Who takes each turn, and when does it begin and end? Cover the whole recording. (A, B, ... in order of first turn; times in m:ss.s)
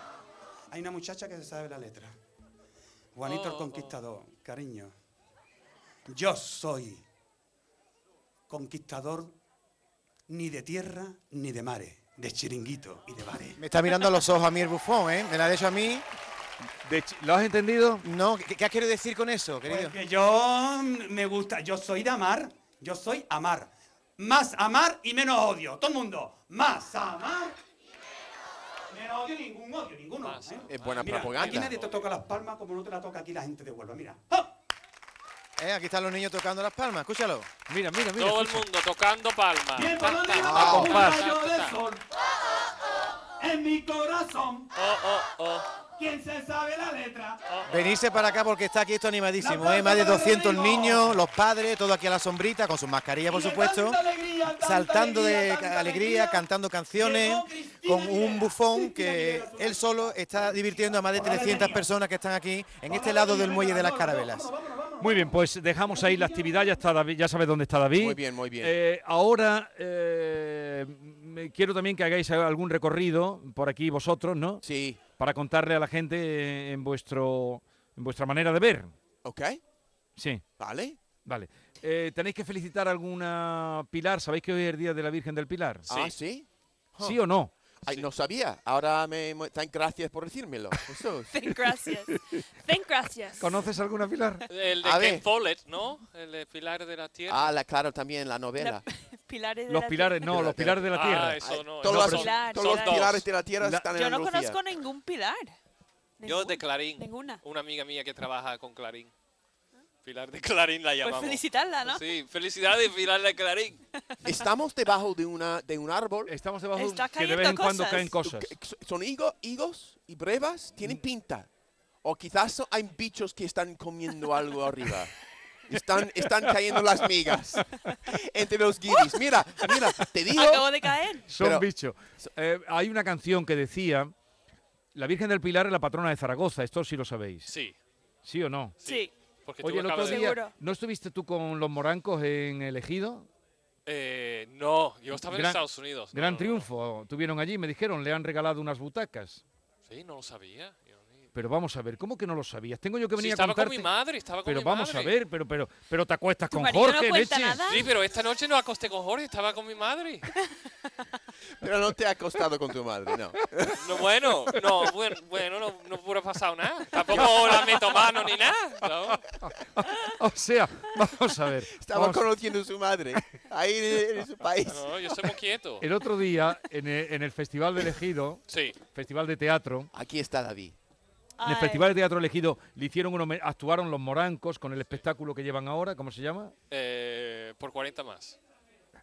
0:00.7-0:02.1 A
0:03.1-0:04.9 A
0:03.2-0:03.9 B
0:06.1-0:07.0 A
0:08.5-0:09.3 A
0:10.3-0:13.6 A
0:13.6-0:16.0 C
0:16.8-0:18.0 D
0:18.0-0:20.0 C
0:19.6-0:27.6 A
0:28.9-0:34.5 A
0:30.2-0:32.1 B
0:30.7-0:31.7 E
0:35.6-0:37.5 C
0:37.7-0:38.6 D
0:38.2-0:41.8 B
0:39.8-0:42.0 A
0:40.4-0:41.0 C
0:40.6-0:41.2 D
0:43.4-0:44.7 A
0:44.7-0:45.7 B
0:46.0-0:47.4 A
0:47.5-0:47.8 B
0:47.6-0:54.0 C
0:49.4-0:51.2 A
0:53.2-1:01.9 A
0:54.5-1:04.5 C
1:02.8-1:05.4 A
1:05.0-1:14.6 D
1:05.9-1:06.8 A
1:07.9-1:08.8 E
1:14.6-1:15.0 E
1:15.2-1:18.9 D
1:19.2-1:19.6 E
1:20.2-1:20.4 D
1:20.6-1:21.0 E
1:21.2-1:25.8 D
1:25.9-1:26.1 B
1:25.9-1:27.2 E
1:27.0-1:27.5 D
1:27.8-1:31.4 E
1:31.3-1:33.6 F
1:32.1-1:32.4 D
1:33.4-1:34.4 D
1:34.5-1:37.5 B
1:34.8-1:35.2 E
1:37.3-1:38.8 E
1:38.6-1:40.3 F
1:39.7-1:42.3 D
1:40.3-1:44.6 E
1:40.9-1:43.2 B
1:42.0-1:43.1 F
1:43.6-1:43.9 D
1:43.9-1:45.6 F
1:46.2-1:47.4 F
1:46.2-1:49.1 B
1:50.0-1:53.8 B
1:51.0-1:52.0 F
1:54.2-1:56.3 E
1:56.2-1:58.5 D
1:56.7-1:58.2 F
1:58.2-2:01.5 E
2:02.0-2:05.1 E
2:05.7-2:10.7 E
2:09.6-2:11.2 F
2:11.3-2:14.1 D
2:11.4-2:12.3 E
2:14.9-2:17.5 D
2:17.5-2:17.8 B
2:18.2-2:18.8 D
2:18.8-2:20.3 B
2:18.8-2:19.1 F
2:19.6-2:23.3 D
2:20.0-2:20.5 F
2:23.8-2:26.7 B
2:25.3-2:25.6 D
2:26.1-2:29.4 D
2:29.8-2:31.3 B
2:31.3-2:33.9 D
2:33.2-2:35.1 B
2:34.4-2:37.6 D
2:36.5-2:37.9 F
2:37.7-2:40.3 B
2:41.6-2:44.6 E
2:43.8-2:49.3 B
2:47.1-2:47.5 E
2:47.2-2:47.6 D
2:49.1-2:52.2 D
2:51.7-2:55.3 E
2:54.6-2:55.8 B
2:55.8-2:59.9 D
2:58.5-2:58.8 B
2:59.9-3:00.8 E
3:01.4-3:01.9 F
3:01.4-3:06.5 D
3:06.7-3:08.4 B